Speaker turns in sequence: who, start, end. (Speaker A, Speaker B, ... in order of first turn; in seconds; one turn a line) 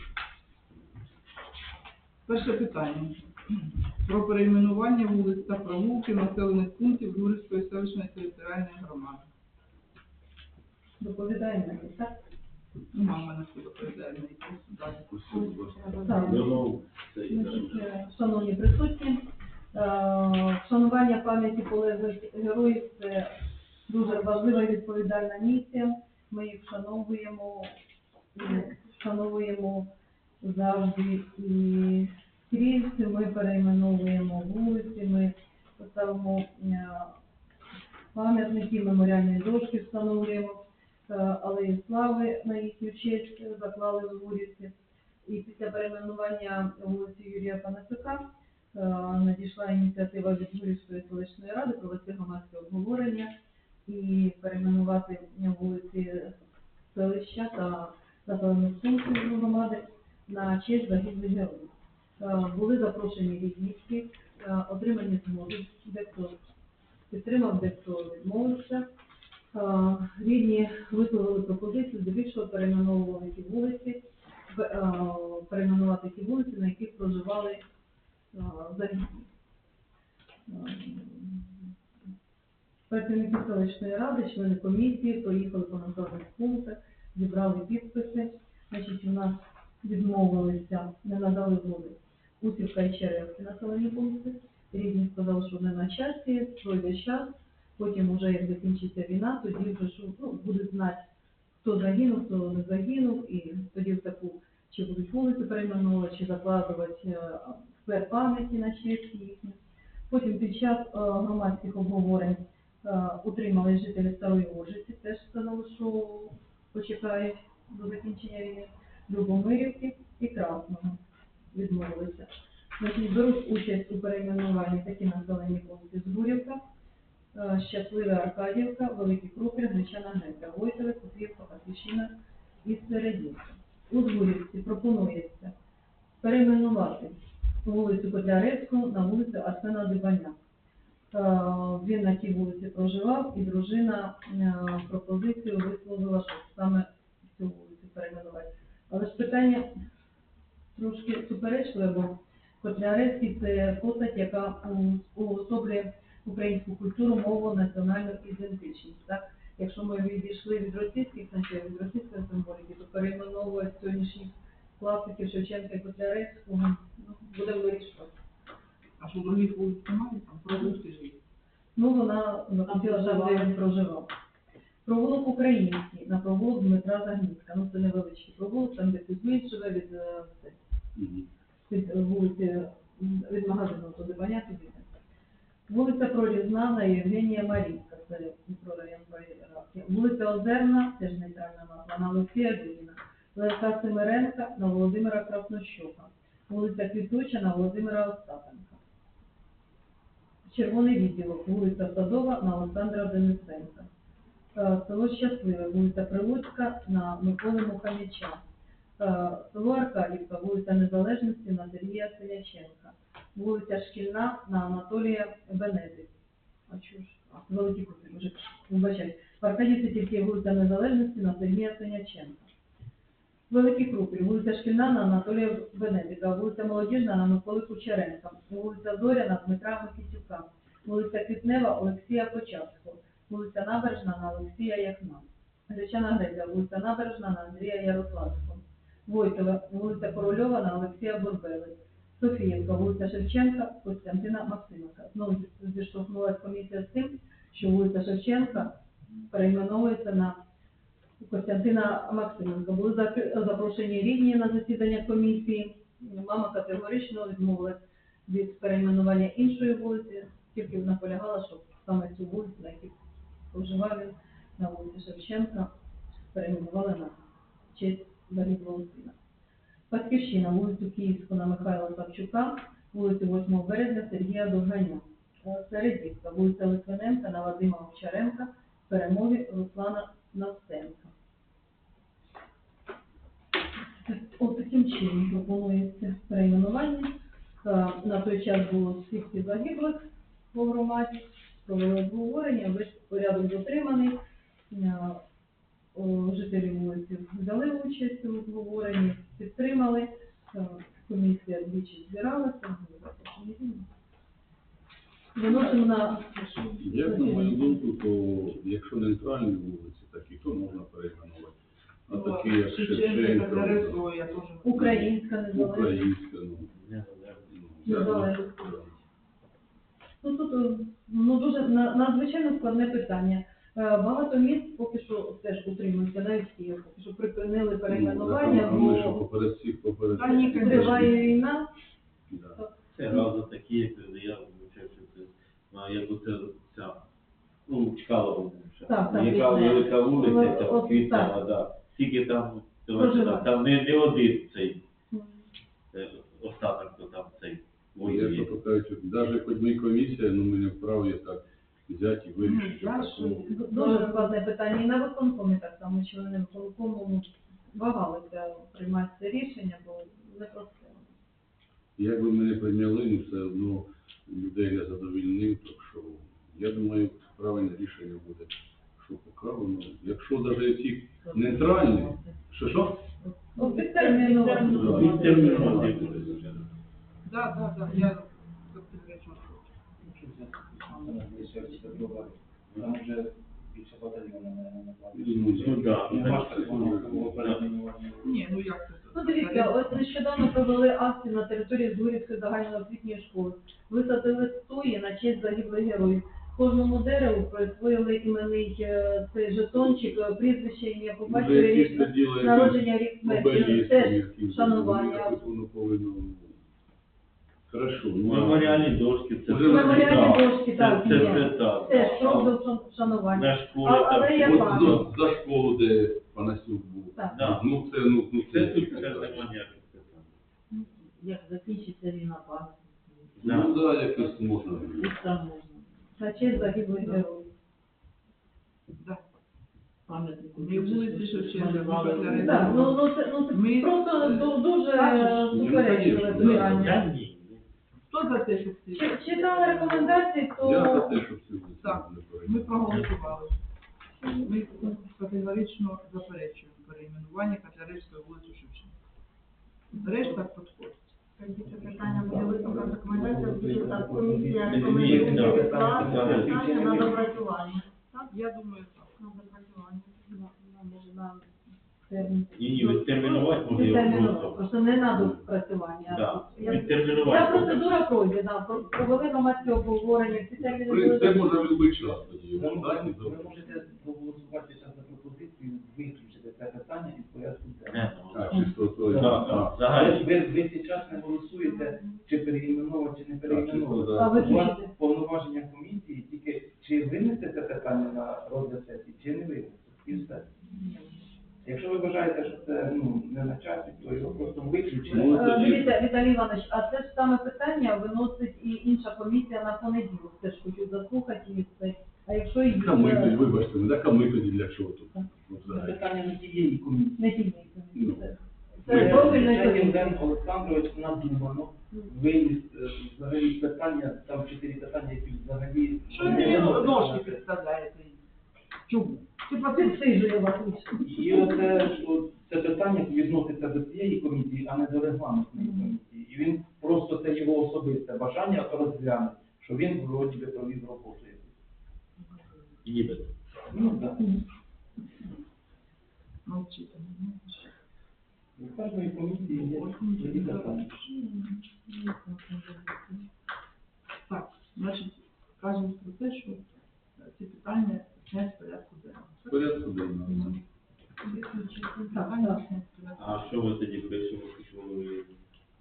Speaker A: 2.2-9.2
Speaker B: 11.0-12.2
Speaker A: 12.9-15.1
Speaker C: 15.1-15.9
Speaker D: 15.3-16.6
Speaker B: 16.1-16.4
Speaker E: 16.2-17.9
Speaker B: 17.3-23.3
Speaker B: 23.9-27.8
Speaker B: 28.3-29.9
Speaker D: 28.4-28.7
Speaker B: 30.4-37.1
Speaker B: 38.1-53.3
Speaker B: 53.9-56.4
Speaker B: 56.9-66.4
Speaker B: 67.1-68.9
Speaker B: 69.5-77.6
Speaker B: 78.3-79.2
Speaker B: 80.5-81.5
Speaker B: 82.9-101.0
Speaker B: 101.6-109.6
Speaker B: 110.1-121.0
Speaker B: 121.5-126.6
Speaker B: 127.3-135.5
Speaker B: 136.2-140.3
Speaker B: 141.1-149.7
Speaker B: 150.7-168.1
Speaker A: 169.0-171.2
Speaker B: 171.8-174.1
Speaker F: 172.7-173.6
Speaker B: 174.8-180.6
Speaker C: 180.9-181.3
Speaker B: 181.7-184.9
Speaker B: 185.7-198.8
Speaker B: 200.4-203.9
Speaker B: 204.5-208.4
Speaker B: 209.0-216.1
Speaker B: 216.7-222.5
Speaker B: 223.5-248.8
Speaker B: 249.3-250.4
Speaker B: 251.2-262.9
Speaker B: 263.5-265.7
Speaker B: 266.3-267.2
Speaker B: 267.7-269.1
Speaker B: 269.9-281.1
Speaker B: 284.1-295.2
Speaker B: 295.9-303.9
Speaker B: 305.3-307.8
Speaker A: 305.4-306.9
Speaker C: 306.8-311.6
Speaker C: 312.1-314.0
Speaker A: 312.1-315.0
Speaker B: 314.6-316.0
Speaker C: 314.8-316.7
Speaker E: 316.7-317.5
Speaker C: 317.5-318.9
Speaker B: 317.9-318.6
Speaker B: 320.2-329.2
Speaker C: 327.9-331.3
Speaker A: 330.1-331.2
Speaker B: 330.3-331.7
Speaker C: 332.3-332.6
Speaker B: 332.6-333.2
Speaker E: 332.9-337.0
Speaker E: 337.6-344.8
Speaker B: 338.9-341.3
Speaker B: 342.9-343.5
Speaker B: 345.1-345.4
Speaker E: 345.9-348.5
Speaker C: 348.0-353.4
Speaker A: 352.4-354.3
Speaker B: 353.5-361.1
Speaker C: 362.0-373.0
Speaker F: 371.2-372.4
Speaker F: 373.2-376.2
Speaker B: 373.6-375.9
Speaker E: 374.6-376.7
Speaker C: 374.7-376.3
Speaker A: 377.2-379.7
Speaker G: 380.0-388.4
Speaker F: 380.9-382.1
Speaker C: 385.1-387.4
Speaker E: 385.3-387.6
Speaker A: 388.2-390.0
Speaker B: 389.1-405.4
Speaker C: 401.2-406.6
Speaker C: 407.7-411.5
Speaker E: 408.2-412.6
Speaker B: 409.6-415.0
Speaker E: 413.3-415.1
Speaker C: 414.4-419.5
Speaker E: 417.3-417.7
Speaker E: 418.4-420.3
Speaker F: 420.7-427.2
Speaker E: 423.4-423.8
Speaker C: 423.4-425.1
Speaker B: 426.2-427.5
Speaker F: 430.1-432.9
Speaker A: 430.6-435.5
Speaker B: 432.4-437.1
Speaker C: 435.5-437.0
Speaker E: 436.3-437.6
Speaker A: 438.1-440.3
Speaker B: 438.9-441.2
Speaker C: 440.6-443.1
Speaker A: 441.8-443.5
Speaker A: 444.3-448.9
Speaker A: 449.9-451.2
Speaker D: 451.4-458.3
Speaker G: 451.6-457.4
Speaker E: 454.6-456.5
Speaker A: 458.3-459.1
Speaker D: 459.2-460.4
Speaker B: 460.3-461.5
Speaker B: 462.1-471.6
Speaker E: 462.5-464.7
Speaker E: 466.1-468.1
Speaker C: 470.6-473.5
Speaker G: 472.5-478.1
Speaker E: 477.9-480.3
Speaker C: 478.3-479.7
Speaker G: 479.0-490.5
Speaker D: 481.7-482.1
Speaker C: 483.5-484.5
Speaker B: 484.1-484.9
Speaker G: 491.6-495.8
Speaker C: 495.1-495.9
Speaker B: 495.3-503.5
Speaker C: 502.7-506.0
Speaker G: 505.6-507.3
Speaker B: 507.2-510.2
Speaker C: 507.9-508.3
Speaker G: 508.8-517.4
Speaker C: 508.9-509.6
Speaker A: 516.1-518.2
Speaker A: 518.9-520.0
Speaker B: 519.5-521.4
Speaker G: 521.0-531.5
Speaker E: 532.8-533.3
Speaker G: 533.7-534.2
Speaker A: 536.5-537.7
Speaker G: 538.6-541.0
Speaker A: 539.4-543.2
Speaker A: 544.3-546.6
Speaker A: 547.2-550.6
Speaker C: 549.5-550.5
Speaker A: 551.2-553.5
Speaker B: 552.1-552.6
Speaker E: 553.2-555.3